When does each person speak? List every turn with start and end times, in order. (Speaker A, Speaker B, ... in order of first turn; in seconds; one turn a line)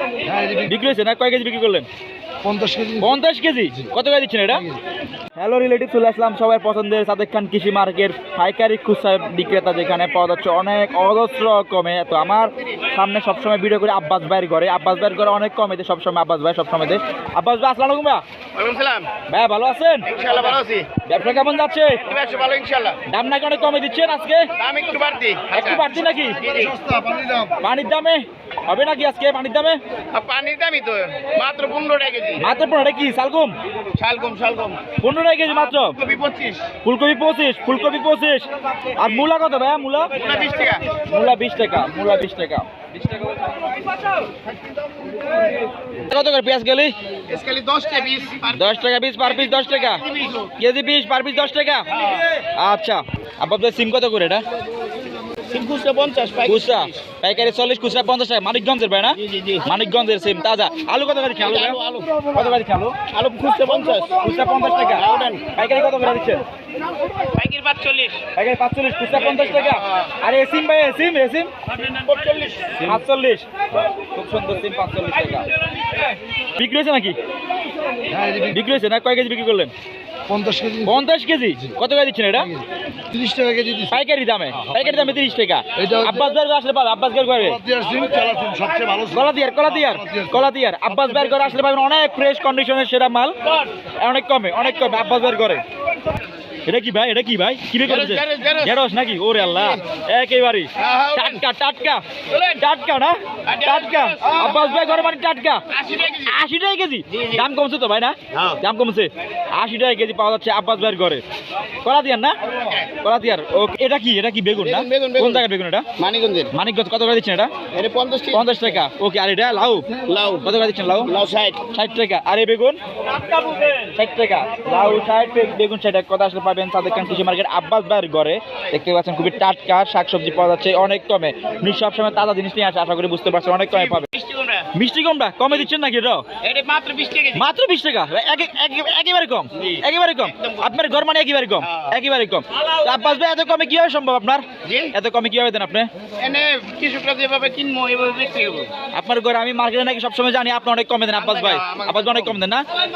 Speaker A: 0.2-0.7
Speaker B: 0.7-1.9
Speaker A: 2.4-3.1
Speaker B: 3.0-4.7
Speaker B: 5.4-18.2
Speaker C: 18.6-19.1
Speaker B: 19.3-20.1
Speaker C: 20.1-20.9
Speaker B: 21.1-22.0
Speaker C: 22.1-23.0
Speaker B: 23.1-24.5
Speaker C: 24.6-26.8
Speaker B: 25.5-26.4
Speaker A: 26.4-27.6
Speaker B: 27.6-29.8
Speaker C: 30.1-32.4
Speaker B: 32.4-33.5
Speaker C: 34.0-34.8
Speaker B: 35.0-36.0
Speaker C: 35.8-36.7
Speaker B: 36.8-40.1
Speaker C: 40.2-41.0
Speaker B: 41.0-43.3
Speaker B: 46.0-47.0
Speaker C: 47.3-50.5
Speaker B: 48.5-50.0
Speaker B: 50.6-54.4
Speaker C: 51.9-52.3
Speaker C: 55.5-57.0
Speaker B: 56.5-61.8
Speaker C: 59.2-59.7
Speaker C: 61.4-62.4
Speaker B: 62.3-63.0
Speaker C: 63.1-64.3
Speaker B: 64.2-66.4
Speaker C: 64.8-65.5
Speaker C: 67.2-68.2
Speaker B: 68.3-71.5
Speaker C: 69.1-70.1
Speaker C: 72.0-73.0
Speaker B: 72.8-73.5
Speaker B: 74.1-75.5
Speaker B: 76.6-77.2
Speaker A: 78.1-78.6
Speaker B: 78.5-79.7
Speaker A: 80.3-81.0
Speaker B: 80.8-82.5
Speaker A: 82.4-84.0
Speaker B: 83.9-87.6
Speaker A: 85.8-86.3
Speaker A: 87.4-90.4
Speaker B: 89.1-93.4
Speaker B: 94.0-95.6
Speaker B: 96.7-105.6
Speaker C: 97.8-98.8
Speaker C: 100.8-101.4
Speaker C: 102.3-102.6
Speaker C: 103.5-104.9
Speaker C: 105.7-106.3
Speaker B: 106.2-111.2
Speaker C: 107.1-107.5
Speaker C: 108.3-108.6
Speaker B: 111.8-112.4
Speaker C: 112.5-112.9
Speaker B: 113.0-115.9
Speaker C: 114.6-115.5
Speaker C: 116.0-116.5
Speaker B: 116.5-117.5
Speaker C: 117.7-118.7
Speaker B: 118.3-121.1
Speaker C: 120.0-121.6
Speaker B: 121.7-122.8
Speaker B: 123.7-134.1
Speaker C: 133.7-134.7
Speaker B: 134.7-136.3
Speaker C: 136.4-137.5
Speaker B: 137.3-145.9
Speaker C: 139.6-140.7
Speaker C: 141.6-141.9
Speaker C: 144.6-144.9
Speaker C: 146.2-148.7
Speaker B: 148.9-152.7
Speaker C: 151.2-152.4